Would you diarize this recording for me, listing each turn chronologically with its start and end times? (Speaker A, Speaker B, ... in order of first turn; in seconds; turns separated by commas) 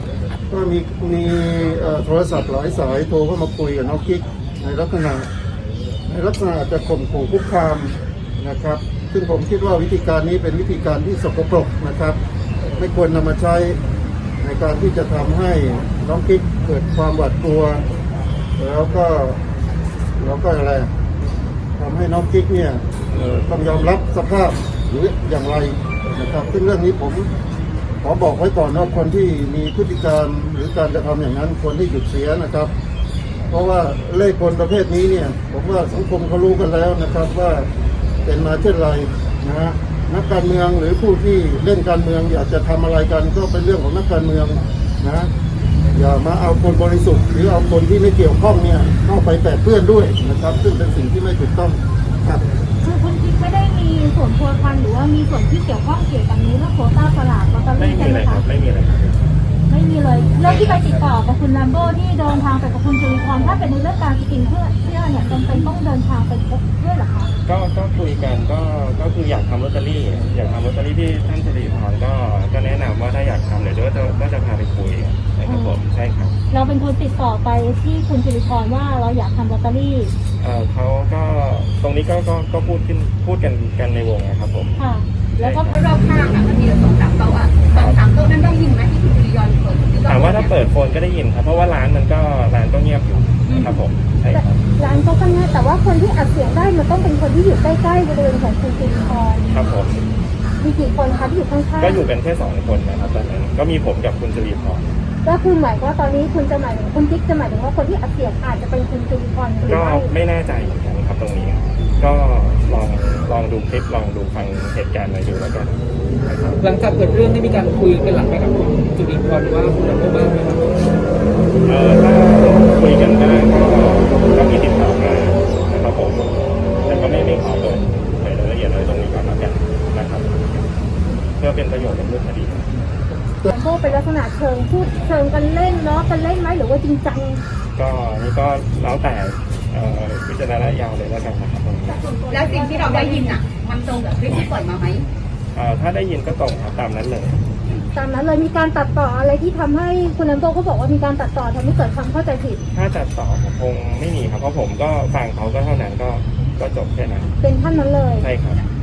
Speaker A: 0.5-5.3, Speaker A: 6.1-12.2, Speaker A: 12.8-13.8, Speaker A: 14.4-17.9, Speaker A: 18.6-19.4, Speaker A: 20.2-20.9, Speaker A: 21.8-27.3, Speaker A: 28.0-32.7, Speaker A: 33.5-37.7, Speaker A: 38.2-45.3, Speaker A: 45.9-52.4, Speaker B: 52.8-58.4, Speaker C: 57.8-59.1, Speaker B: 59.7-67.3, Speaker C: 67.5-76.4, Speaker B: 75.5-75.8, Speaker B: 76.5-80.1, Speaker C: 80.4-84.7, Speaker B: 84.8-85.7, Speaker C: 85.4-85.8, Speaker D: 85.7-90.6, Speaker C: 87.8-88.0, Speaker C: 90.0-94.6, Speaker B: 94.3-99.5, Speaker C: 99.5-100.0, Speaker B: 100.6-102.0, Speaker C: 101.8-104.9, Speaker B: 105.2-110.1, Speaker C: 109.7-116.6, Speaker E: 116.6-120.7, Speaker C: 121.7-126.3, Speaker C: 126.9-130.7, Speaker C: 131.4-132.7, Speaker B: 133.5-137.4, Speaker C: 137.8-142.0, Speaker B: 141.9-143.4, Speaker D: 142.3-145.1, Speaker C: 145.5-147.4, Speaker B: 147.9-152.6, Speaker C: 152.7-157.3, Speaker B: 157.4-158.3, Speaker C: 158.2-158.6